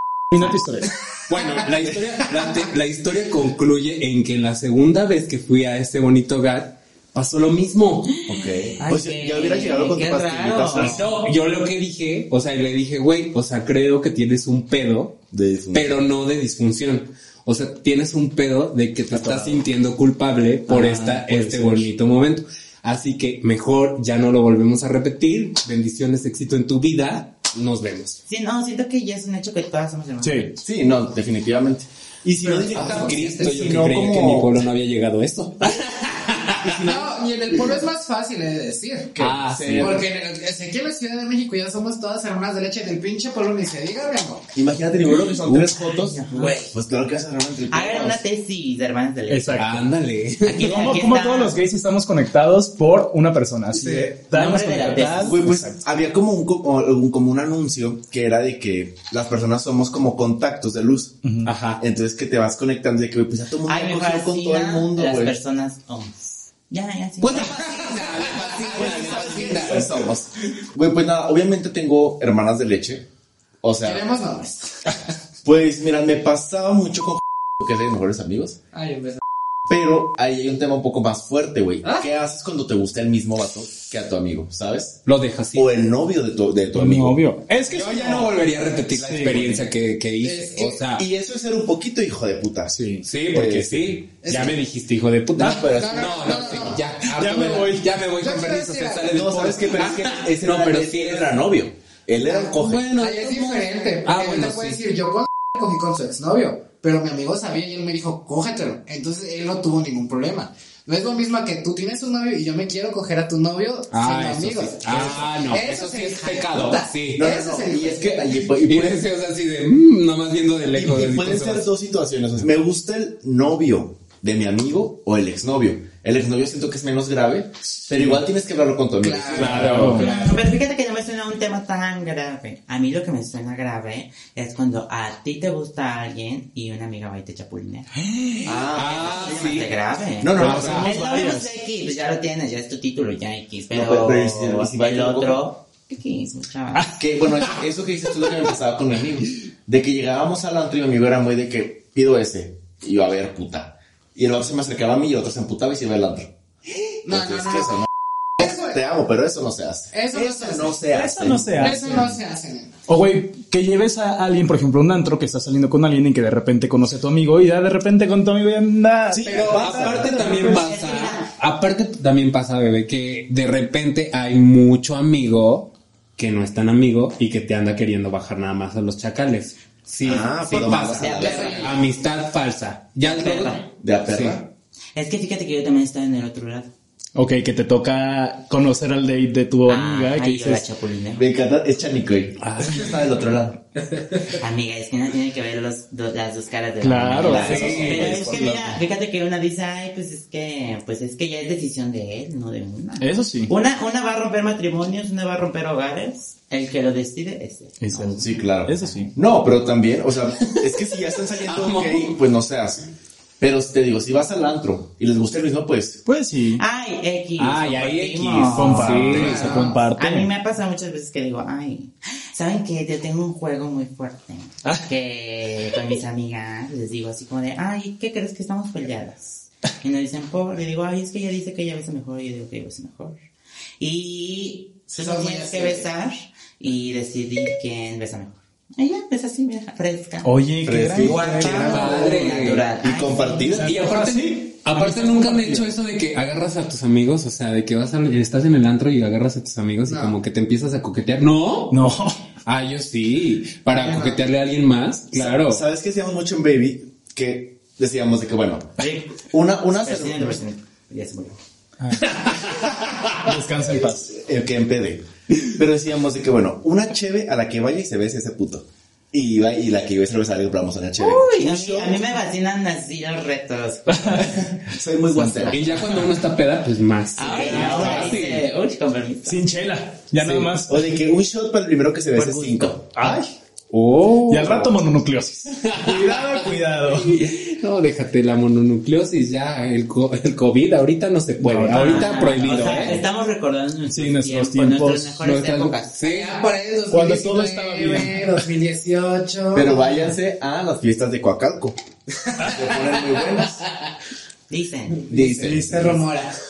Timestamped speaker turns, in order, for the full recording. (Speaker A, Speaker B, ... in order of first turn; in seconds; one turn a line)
Speaker A: 0.3-0.9
Speaker B: 1.2-8.1
Speaker C: 8.2-11.1
Speaker D: 8.8-11.0
Speaker B: 10.8-28.2
Speaker C: 15.3-16.0
Speaker A: 19.1-19.6
Speaker A: 20.7-21.9
Speaker D: 28.3-30.5
Speaker A: 30.2-30.6
Speaker C: 30.6-34.7
Speaker E: 32.4-33.3
Speaker B: 32.7-37.0
Speaker C: 36.6-37.0
Speaker E: 36.8-39.2
Speaker C: 39.1-40.1
Speaker B: 39.2-40.0
Speaker E: 39.8-44.5
Speaker C: 44.5-48.2
Speaker D: 45.8-46.7
Speaker D: 47.7-49.8
Speaker A: 49.3-49.8
Speaker B: 49.6-50.8
Speaker D: 50.4-51.6
Speaker A: 50.6-55.8
Speaker D: 54.3-55.4
Speaker C: 55.2-61.2
Speaker A: 61.2-61.5
Speaker B: 61.4-61.8
Speaker C: 61.8-65.4
Speaker D: 63.7-67.6
Speaker B: 67.2-70.0
Speaker E: 67.3-69.9
Speaker C: 68.7-73.1
Speaker C: 73.6-74.0
Speaker E: 73.8-75.0
Speaker C: 75.4-78.6
Speaker E: 78.7-79.2
Speaker C: 79.7-87.2
Speaker E: 81.8-82.1
Speaker B: 85.0-85.8
Speaker A: 86.7-88.3
Speaker B: 87.7-91.0
Speaker A: 89.0-89.5
Speaker C: 89.1-89.6
Speaker E: 90.2-90.8
Speaker C: 90.9-92.8
Speaker A: 92.7-93.1
Speaker B: 93.0-101.3
Speaker C: 93.3-94.5
Speaker E: 94.2-94.6
Speaker C: 95.4-96.8
Speaker E: 95.6-96.8
Speaker A: 97.0-97.9
Speaker E: 98.2-99.2
Speaker C: 99.1-102.9
Speaker E: 102.2-118.3
Speaker B: 102.5-104.8
Speaker B: 113.9-117.3
Speaker C: 114.9-115.2
Speaker C: 117.2-119.0
Speaker B: 118.6-121.7
Speaker C: 120.7-129.9
Speaker A: 127.9-128.2
Speaker E: 129.0-129.7
Speaker B: 129.3-130.4
Speaker A: 129.4-130.1
Speaker D: 129.9-137.9
Speaker A: 138.0-138.5
Speaker C: 138.4-139.4
Speaker D: 138.6-147.0
Speaker B: 138.7-139.7
Speaker C: 140.2-141.3
Speaker B: 140.4-140.9
Speaker A: 140.4-141.5
Speaker C: 143.7-145.4
Speaker C: 146.9-156.3
Speaker E: 157.0-157.9
Speaker C: 157.1-162.1
Speaker E: 158.4-158.8
Speaker E: 159.9-160.9
Speaker A: 160.9-162.2
Speaker E: 161.6-162.8
Speaker A: 162.9-170.6
Speaker C: 169.1-170.5
Speaker B: 169.2-184.4
Speaker D: 170.2-171.3
Speaker C: 180.0-181.6
Speaker D: 180.6-181.8
Speaker E: 181.2-181.8
Speaker D: 183.0-183.7
Speaker C: 183.8-184.5
Speaker D: 184.9-186.7
Speaker A: 187.1-190.7
Speaker D: 189.7-191.3
Speaker C: 191.2-193.6
Speaker B: 192.4-193.0
Speaker B: 194.0-194.3
Speaker D: 194.4-209.1
Speaker A: 196.8-198.8
Speaker C: 197.2-198.4
Speaker B: 197.3-198.3
Speaker A: 203.0-203.5
Speaker A: 207.8-209.1
Speaker C: 208.2-212.9
Speaker B: 210.5-212.2
Speaker C: 213.4-216.0
Speaker A: 216.1-216.6
Speaker D: 216.6-233.2
Speaker B: 217.4-219.7
Speaker A: 218.5-220.3
Speaker E: 219.1-219.8
Speaker D: 233.8-240.3
Speaker E: 234.9-235.9
Speaker A: 240.2-242.2
Speaker C: 240.6-243.8
Speaker D: 240.9-243.6
Speaker B: 241.4-242.7
Speaker A: 243.5-245.7
Speaker B: 243.6-251.9
Speaker E: 249.9-250.2
Speaker A: 251.7-252.2
Speaker B: 252.4-255.6
Speaker E: 253.8-254.2
Speaker C: 255.1-260.4
Speaker D: 258.8-261.4
Speaker A: 261.8-262.2
Speaker B: 262.2-262.5
Speaker A: 263.2-264.2
Speaker C: 264.1-272.0
Speaker D: 271.0-274.5
Speaker A: 273.9-274.3
Speaker C: 274.2-275.6
Speaker A: 275.2-275.5
Speaker B: 275.5-278.4
Speaker D: 277.2-279.4
Speaker A: 277.3-278.1
Speaker A: 279.2-280.8
Speaker C: 280.2-283.2
Speaker D: 282.1-282.8
Speaker A: 282.9-283.3
Speaker B: 283.7-284.8
Speaker A: 284.1-287.2
Speaker B: 285.5-293.0
Speaker A: 291.4-293.0
Speaker D: 291.7-296.0
Speaker A: 293.9-295.2
Speaker B: 295.2-296.4
Speaker E: 296.0-299.9
Speaker A: 296.9-298.3
Speaker C: 299.5-301.8
Speaker E: 302.3-303.5
Speaker C: 302.4-303.6
Speaker D: 304.5-305.1
Speaker C: 305.1-306.0
Speaker E: 305.1-306.3
Speaker A: 305.5-305.8